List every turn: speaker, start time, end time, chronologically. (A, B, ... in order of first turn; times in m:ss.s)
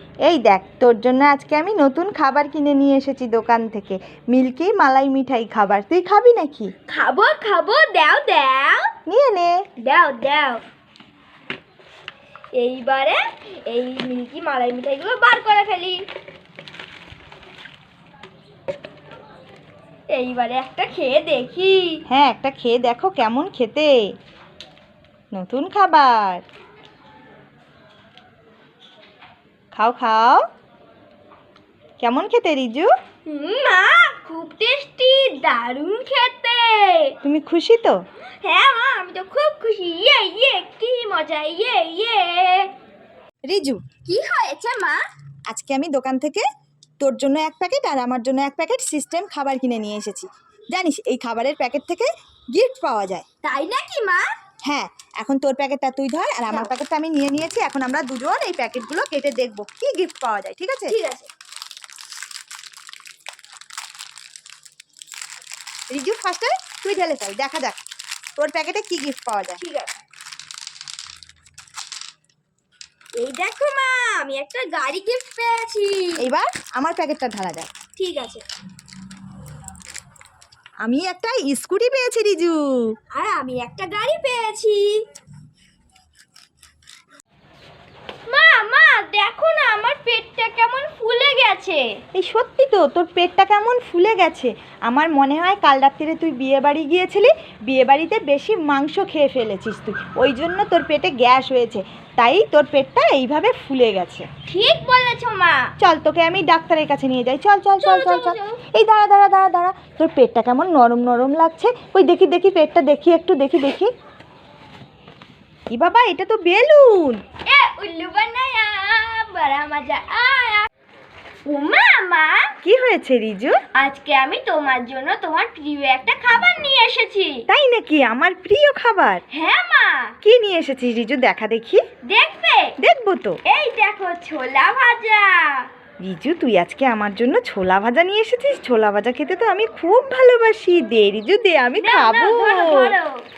0:00.2-0:06.7 A
0:06.9-0:08.9 B
0:09.1-0:09.6 A
0:09.8-0:10.6 B
0:12.6-0:16.0 B
0:20.1-0:22.0 B
0:22.1-0:23.9 A
0:25.3-0:26.4 A
0:29.8-0:30.4 A
0:32.0-0:32.9 A
0:33.3-0:37.2 B
0:37.2-0:38.0 A
0:38.4-0:42.7 B
0:43.5-0:43.8 A
0:44.1-0:45.0 B
0:45.5-0:46.5 A
0:47.0-0:53.2 A
0:53.4-0:54.2 B
0:54.7-1:01.0 A
1:00.9-1:01.3 B
1:05.9-1:07.8 A
1:08.4-1:09.6 A
1:09.6-1:10.0 B
1:13.2-1:16.2 B
1:16.2-1:17.7 A
1:18.0-1:18.4 B
1:20.8-1:22.8 A
1:23.1-1:25.0 B
1:28.3-1:31.8 B
1:32.2-1:44.3 A
1:44.5-1:45.7 B
1:45.8-1:53.9 A
1:47.8-1:48.6 B
1:55.7-1:57.2 A
1:57.5-2:00.7 B
2:01.5-2:02.5 B
2:02.6-2:03.6 A
2:03.7-2:07.4 B
2:07.5-2:09.2 A
2:09.3-2:10.2 B
2:10.2-2:11.8 A
2:12.1-2:12.8 B
2:12.8-2:13.4 A
2:13.5-2:15.7 B
2:16.0-2:22.9 A
2:21.8-2:23.2 B